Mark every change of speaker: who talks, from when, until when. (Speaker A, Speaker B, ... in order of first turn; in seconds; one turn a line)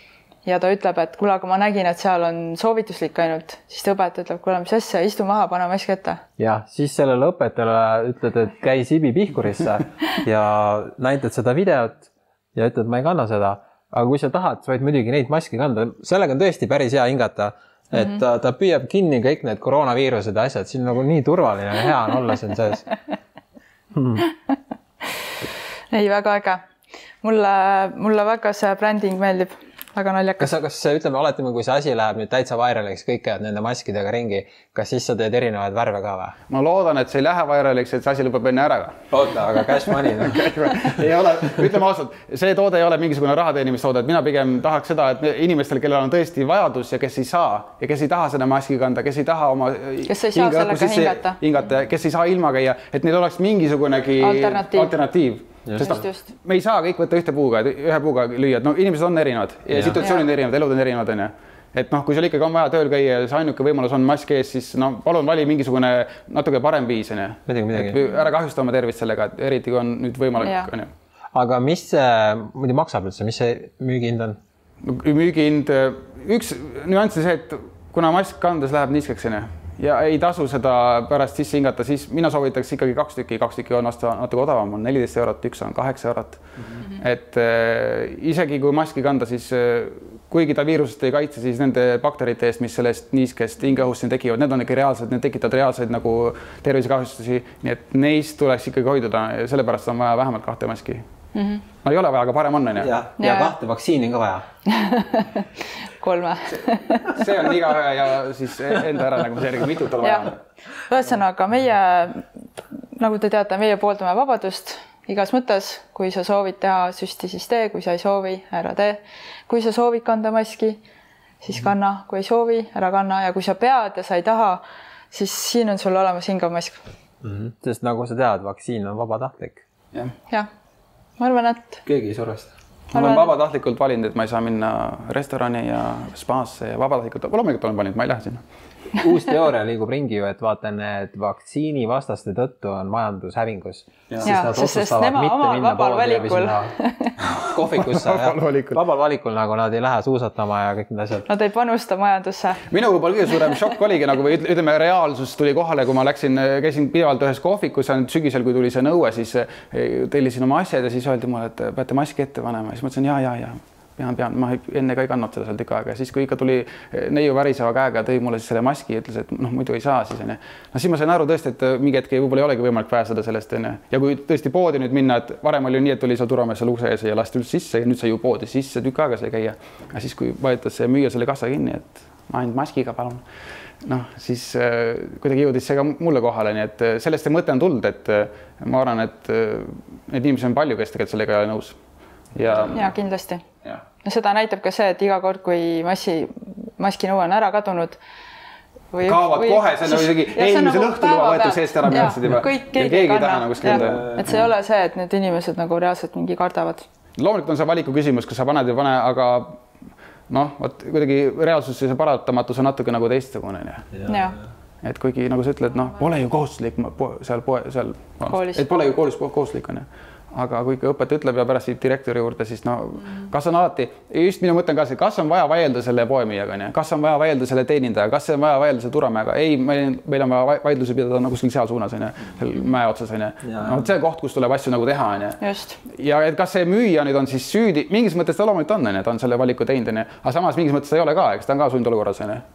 Speaker A: 0.4-6.2
Speaker B: 6.4-22.9
Speaker B: 23.9-24.3
Speaker A: 25.9-26.6
Speaker A: 27.2-30.5
Speaker B: 30.4-36.3
Speaker C: 36.5-39.0
Speaker B: 39.1-41.0
Speaker C: 40.0-70.9
Speaker A: 50.0-51.4
Speaker A: 54.2-54.9
Speaker B: 55.6-55.9
Speaker A: 55.8-56.3
Speaker B: 59.7-60.0
Speaker A: 60.0-60.3
Speaker B: 67.5-68.0
Speaker A: 70.4-70.7
Speaker B: 71.3-74.4
Speaker C: 74.8-101.0
Speaker A: 101.3-101.6
Speaker C: 101.8-102.9
Speaker B: 102.8-104.4
Speaker A: 103.2-103.5
Speaker A: 104.7-105.5
Speaker A: 106.0-107.2
Speaker C: 107.1-110.3
Speaker A: 110.0-110.3
Speaker A: 110.9-112.2
Speaker A: 113.0-120.8
Speaker A: 121.4-126.8
Speaker B: 127.2-129.6
Speaker A: 131.2-131.8
Speaker B: 131.9-132.5
Speaker A: 132.9-133.3
Speaker C: 132.9-138.4
Speaker B: 139.0-146.7
Speaker C: 144.1-144.4
Speaker A: 144.2-147.1
Speaker B: 147.4-151.3
Speaker C: 147.5-148.8
Speaker A: 151.2-152.6
Speaker C: 152.7-183.2
Speaker C: 183.8-191.8
Speaker C: 192.3-192.9
Speaker A: 192.5-193.4
Speaker A: 194.0-198.0
Speaker A: 198.9-206.8
Speaker C: 199.0-204.4
Speaker B: 203.6-204.4
Speaker C: 207.2-209.6
Speaker C: 210.3-214.0
Speaker A: 214.1-214.4
Speaker C: 214.8-235.4
Speaker A: 218.3-218.7
Speaker B: 233.4-233.8
Speaker A: 235.4-235.8
Speaker C: 235.9-242.4